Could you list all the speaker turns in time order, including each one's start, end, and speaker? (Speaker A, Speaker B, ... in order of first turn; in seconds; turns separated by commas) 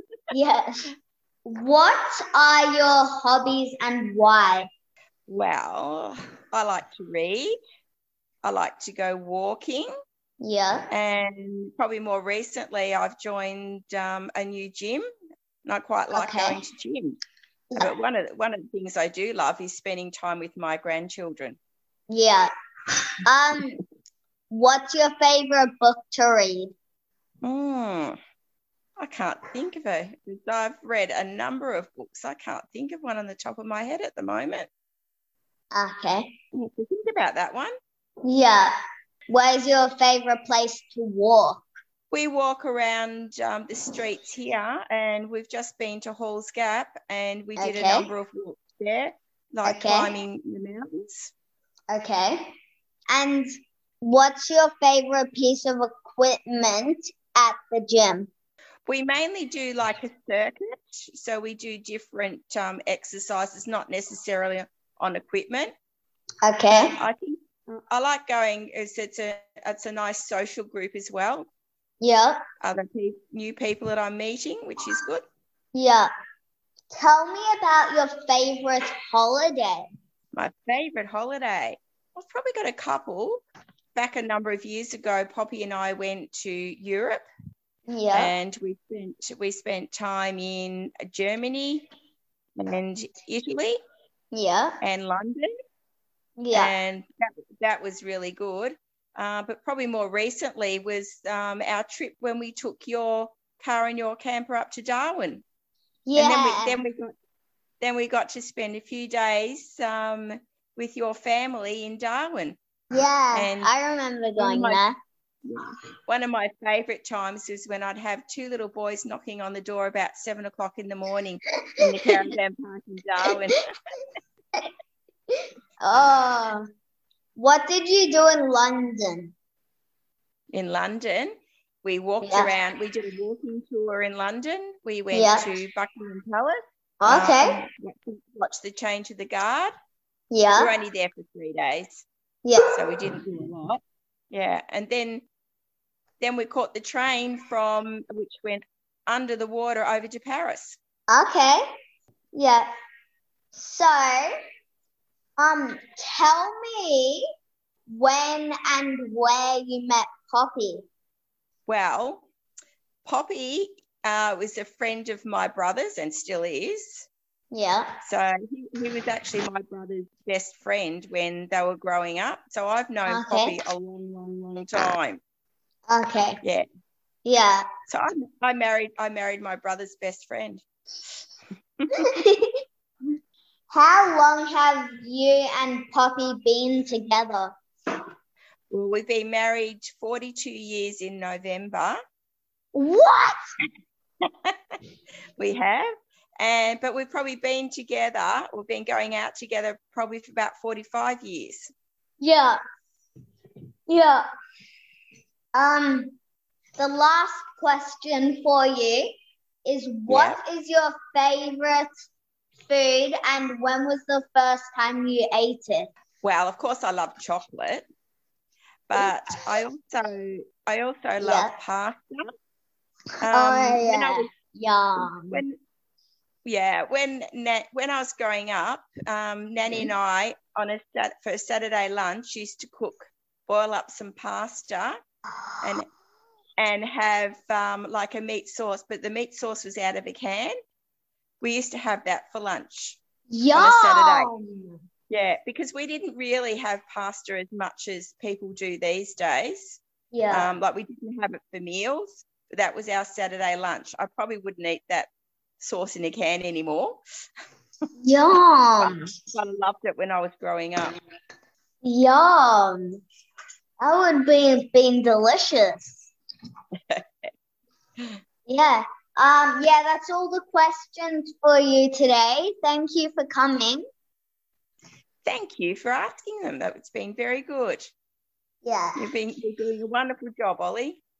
Speaker A: 0.3-0.9, Speaker A: 1.4-4.7, Speaker B: 5.3-7.5, Speaker B: 8.4-9.9, Speaker A: 10.4-10.9, Speaker B: 10.9-15.0, Speaker B: 15.7-17.2, Speaker A: 16.1-16.6, Speaker B: 17.8-21.6, Speaker A: 22.1-22.5, Speaker A: 23.2-23.8, Speaker A: 24.5-26.7, Speaker B: 27.4-28.1, Speaker B: 29.0-34.7, Speaker A: 35.7-36.3, Speaker B: 36.5-37.7, Speaker A: 38.2-38.7, Speaker A: 39.3-41.6, Speaker B: 42.1-51.3, Speaker A: 47.6-48.1, Speaker A: 49.6-50.1, Speaker A: 51.9-52.5, Speaker A: 53.1-53.5, Speaker A: 54.0-58.3, Speaker B: 58.9-65.7, Speaker A: 66.4-66.9, Speaker B: 66.7-71.5, Speaker A: 72.0-72.4, Speaker B: 72.6-75.2, Speaker A: 75.7-76.1, Speaker A: 76.9-79.8, Speaker B: 80.3-83.4, Speaker B: 84.0-87.2, Speaker A: 87.9-88.3, Speaker B: 88.1-91.9, Speaker B: 92.6-93.8, Speaker A: 94.3-94.8, Speaker B: 94.8-95.5, Speaker A: 96.4-96.7, Speaker B: 96.5-97.1, Speaker B: 97.6-105.4, Speaker A: 106.1-106.8, Speaker B: 106.2-107.1, Speaker B: 107.8-112.6, Speaker A: 112.9-114.9, Speaker B: 113.3-113.7, Speaker B: 114.4-114.8, Speaker B: 115.5-123.6, Speaker A: 125.8-126.6, Speaker A: 127.3-129.3, Speaker B: 130.5-139.7, Speaker A: 132.2-132.5, Speaker A: 135.1-135.5, Speaker A: 137.0-137.6, Speaker A: 140.3-140.7, Speaker B: 140.6-142.1, Speaker B: 142.7-143.8, Speaker B: 144.3-145.2, Speaker B: 146.2-150.8, Speaker A: 151.1-151.6, Speaker A: 152.3-152.7, Speaker A: 153.5-154.3, Speaker A: 155.4-157.2, Speaker A: 157.9-160.8, Speaker B: 161.7-162.2, Speaker B: 163.0-167.1, Speaker A: 167.5-167.9, Speaker B: 168.0-175.2, Speaker A: 173.1-173.6, Speaker A: 175.9-176.4, Speaker A: 177.2-177.6, Speaker B: 177.9-180.6, Speaker B: 181.8-182.1, Speaker A: 182.0-182.4, Speaker A: 183.7-187.5, Speaker B: 188.7-192.0, Speaker A: 192.7-193.3, Speaker B: 194.2-194.7, Speaker B: 195.4-195.9, Speaker B: 196.4-201.7, Speaker A: 202.2-202.6, Speaker A: 203.9-204.2, Speaker A: 205.5-206.1, Speaker A: 206.8-209.1, Speaker A: 209.6-211.9, Speaker B: 210.1-210.4, Speaker A: 212.7-215.9, Speaker B: 216.2-217.8, Speaker B: 218.9-222.2, Speaker A: 221.2-221.5, Speaker B: 223.2-224.3, Speaker A: 223.3-225.4, Speaker B: 225.0-225.6, Speaker B: 226.4-235.0, Speaker B: 236.6-240.5, Speaker B: 241.4-243.0, Speaker A: 243.3-244.8, Speaker B: 243.5-244.3, Speaker B: 245.1-255.1, Speaker A: 250.1-250.5, Speaker B: 255.6-257.0, Speaker A: 258.0-259.1, Speaker B: 258.8-260.9, Speaker A: 261.8-262.9, Speaker A: 263.8-266.1, Speaker A: 268.4-273.8, Speaker B: 275.2-277.9, Speaker A: 278.6-279.0, Speaker B: 278.9-281.0